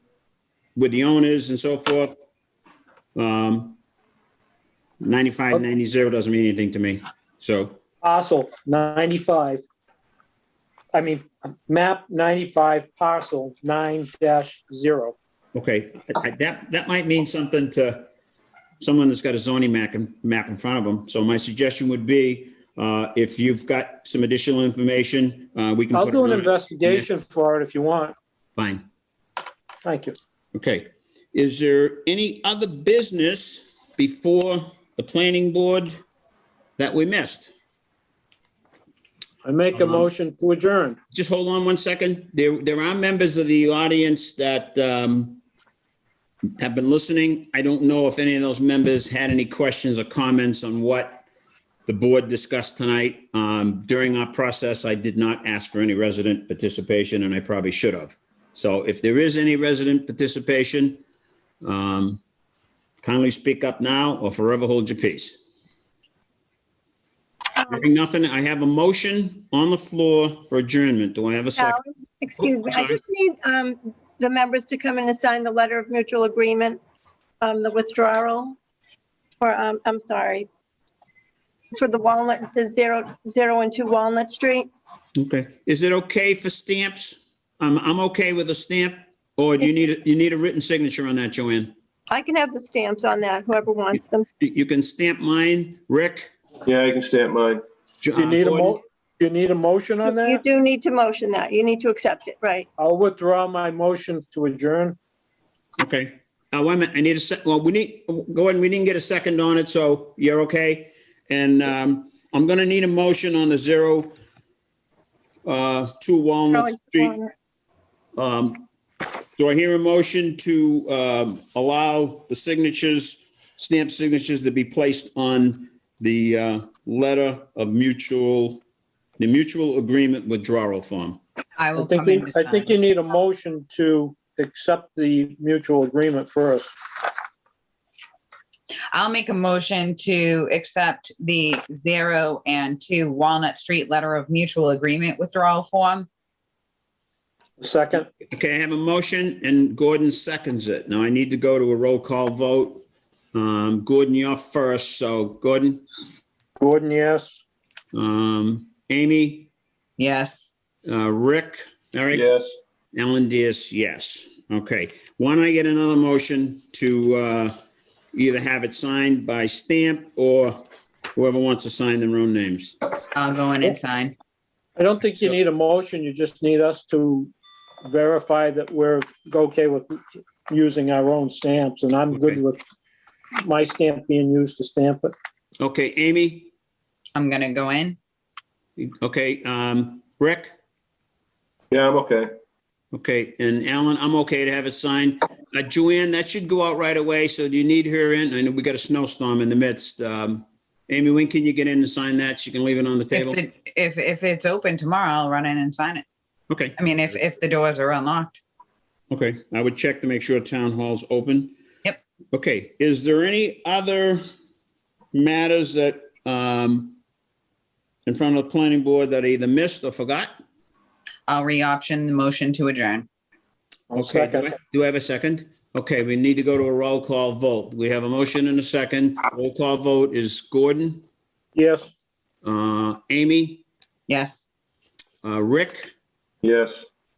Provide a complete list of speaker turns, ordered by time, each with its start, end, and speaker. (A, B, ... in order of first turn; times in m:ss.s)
0:00.8-0:02.1 A
0:03.2-0:03.8 A
0:05.0-0:07.8 A
0:08.0-0:09.6 B
0:10.9-0:15.2 B
0:15.6-0:18.1 A
0:18.8-0:27.1 A
0:25.9-0:28.2 B
0:28.6-0:28.8 A
0:29.8-0:30.2 B
0:30.5-0:36.0 A
0:36.8-0:37.5 A
0:39.4-0:41.0 B
0:39.7-0:40.1 A
0:41.1-0:45.4 A
0:46.6-0:51.2 A
0:51.9-1:01.0 A
1:01.6-1:02.2 A
1:03.0-1:05.4 A
1:07.7-1:11.8 A
1:11.6-1:16.8 C
1:12.4-1:13.0 A
1:17.4-1:18.6 C
1:19.4-1:20.5 C
1:21.7-1:24.7 C
1:25.2-1:31.7 A
1:32.1-1:34.3 C
1:33.9-1:36.3 A
1:36.7-1:37.6 D
1:38.0-1:38.8 A
1:38.2-1:40.4 B
1:40.1-1:42.7 C
1:42.8-1:45.0 B
1:45.8-1:54.1 A
1:55.5-1:57.1 A
1:56.5-1:57.3 C
1:58.2-1:58.7 A
1:59.4-2:08.6 A
2:09.2-2:11.2 A
2:11.6-2:12.7 E
2:11.8-2:16.7 B
2:18.9-2:26.1 E
2:27.6-2:28.1 B
2:28.3-2:32.8 A
2:33.3-2:35.8 A
2:36.6-2:37.4 B
2:37.9-2:39.5 A
2:40.0-2:40.5 E
2:40.9-2:42.3 A
2:42.1-2:42.6 D
2:42.9-2:47.6 A
2:48.1-2:50.6 A
2:51.2-2:52.8 A
2:53.1-2:54.2 E
2:54.8-2:57.3 B
2:57.8-3:02.6 B
3:02.1-3:02.4 A
3:03.4-3:05.1 B
3:05.6-3:06.5 A
3:07.2-3:08.0 E
3:08.8-3:10.5 A
3:11.7-3:12.3 D
3:12.9-3:23.4 A
3:23.1-3:26.0 E
3:26.5-3:26.8 A
3:26.8-3:28.4 E
3:29.1-3:31.6 A
3:32.3-3:34.2 A
3:35.1-3:37.0 A
3:38.1-3:40.4 A
3:41.3-3:43.1 E
3:43.9-3:44.5 B
3:43.9-3:51.0 A
3:51.6-3:51.9 B
3:52.4-3:53.6 A
3:54.1-3:54.4 E
3:55.2-3:55.9 A
3:56.4-3:56.9 D